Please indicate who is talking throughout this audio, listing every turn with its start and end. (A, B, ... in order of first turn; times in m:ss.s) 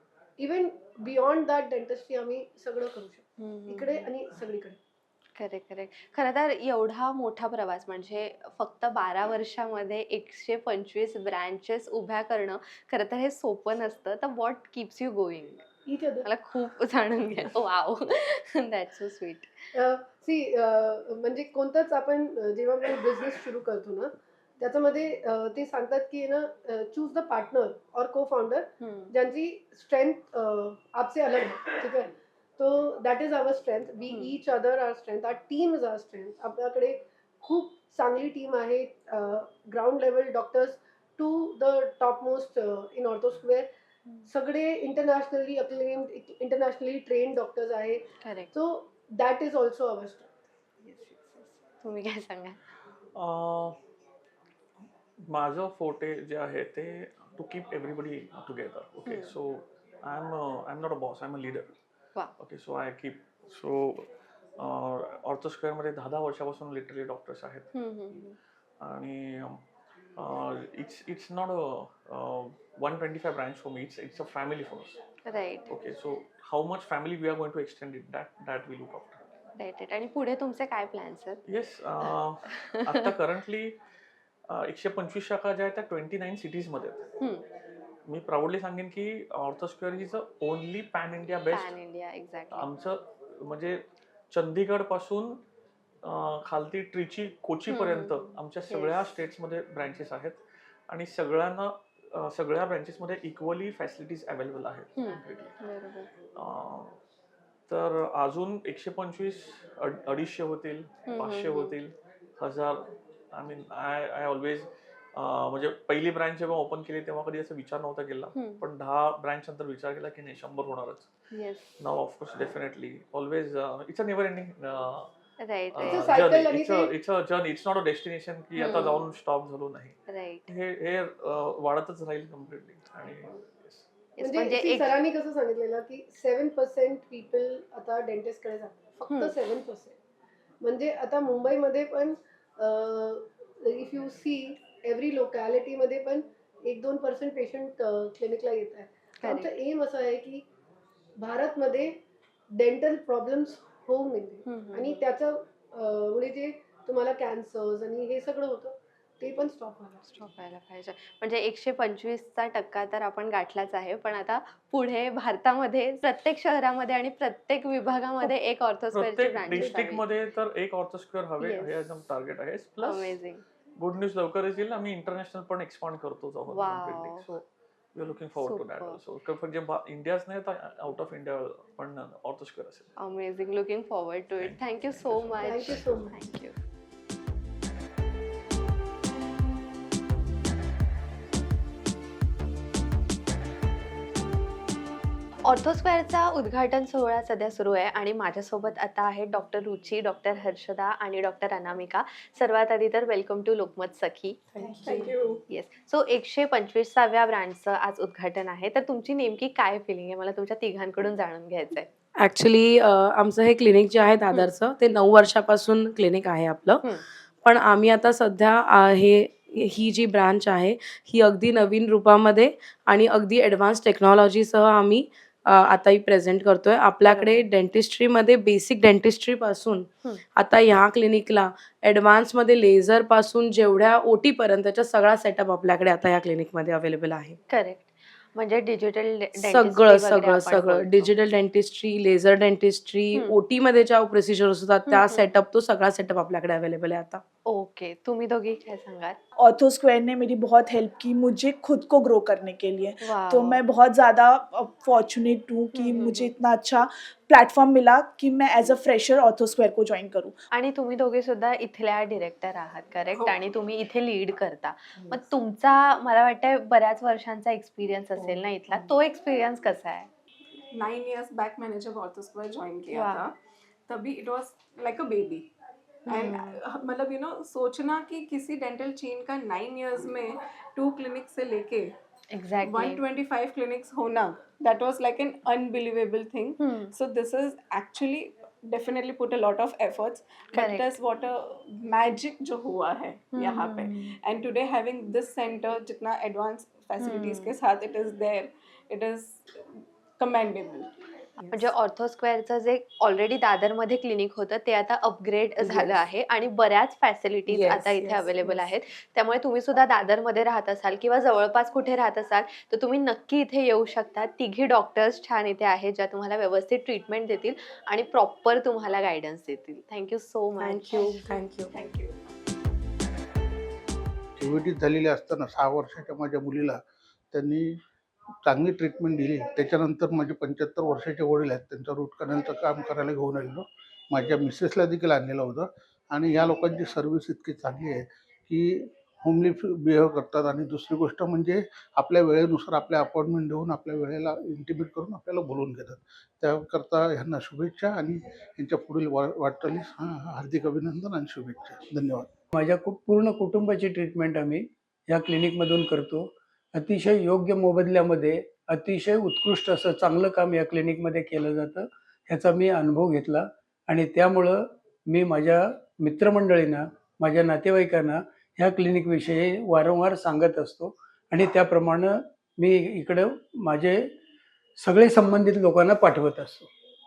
0:00.4-0:04.8 A
0:03.4-0:04.1 B
0:05.4-0:15.6 B
0:15.8-0:16.3 A
0:16.2-0:19.5 B
0:19.7-0:43.7 A
0:28.8-0:29.1 B
0:34.1-0:34.3 B
0:44.3-0:50.3 A
0:48.2-0:48.5 B
0:50.8-0:52.6 B
0:53.2-0:53.8 C
0:55.2-1:01.7 C
0:59.0-0:59.3 B
1:02.4-1:07.7 C
1:07.7-1:08.4 B
1:08.8-1:09.6 C
1:10.2-1:15.0 C
1:15.2-1:15.7 B
1:15.7-1:19.3 C
1:19.6-1:21.4 B
1:21.5-1:23.8 C
1:22.1-1:23.1 B
1:24.5-1:27.1 C
1:27.2-1:27.4 B
1:28.1-1:31.7 C
1:31.5-1:32.7 B
1:32.5-1:33.8 C
1:34.3-1:35.4 C
1:36.0-1:45.6 C
1:37.7-1:39.1 B
1:45.0-1:46.1 B
1:46.4-1:47.0 C
1:47.7-2:01.1 C
1:51.1-1:51.8 B
1:58.3-1:58.6 B
2:01.3-2:01.8 B
2:01.8-2:05.1 C
2:05.4-2:06.2 B
2:05.7-2:10.0 C
2:05.8-2:06.9 A
2:08.6-2:09.1 B
2:10.1-2:10.4 B
2:10.5-2:13.9 C
2:14.2-2:15.0 B
2:14.2-2:19.9 A
2:19.1-2:19.3 B
2:20.6-2:30.4 A
2:29.2-2:29.5 B
2:31.2-2:31.9 A
2:32.5-2:40.0 A
2:34.4-2:35.0 B
2:40.0-2:50.1 B
2:48.9-2:53.2 C
2:49.5-2:49.8 A
2:51.4-2:51.9 B
2:52.8-2:53.4 B
2:53.8-3:02.9 C
2:56.5-2:57.3 B
2:58.4-2:59.0 B
3:03.0-3:06.5 B
3:04.4-3:06.0 C
3:05.4-3:06.2 A
3:15.4-3:24.9 B
3:24.5-3:25.4 D
3:25.5-3:31.9 B
3:32.2-3:36.8 E
3:37.4-3:57.4 E
3:47.0-3:47.4 B
3:57.5-4:01.1 B
3:59.4-4:07.2 E
4:04.9-4:05.3 B
4:07.4-4:09.2 B
4:09.4-4:20.3 F
4:13.0-4:13.6 B
4:15.7-4:16.3 B
4:20.5-4:30.1 B
4:23.1-4:23.4 D
4:30.7-4:35.5 D
4:32.9-4:33.3 B
4:36.0-4:36.6 B
4:36.0-4:42.0 D
4:42.3-4:43.0 B
4:42.6-5:01.7 D
4:46.6-4:46.9 B
4:50.5-4:50.9 B
4:53.3-4:54.2 B
4:57.0-4:57.6 B
5:01.5-5:21.1 B
5:07.6-5:08.7 D
5:07.6-5:08.0 E
5:20.6-5:21.7 E
5:21.0-5:22.2 D
5:24.4-5:26.8 G
5:27.3-5:27.7 G
5:28.4-5:52.3 G
5:52.5-6:14.1 H
6:14.8-6:16.7 H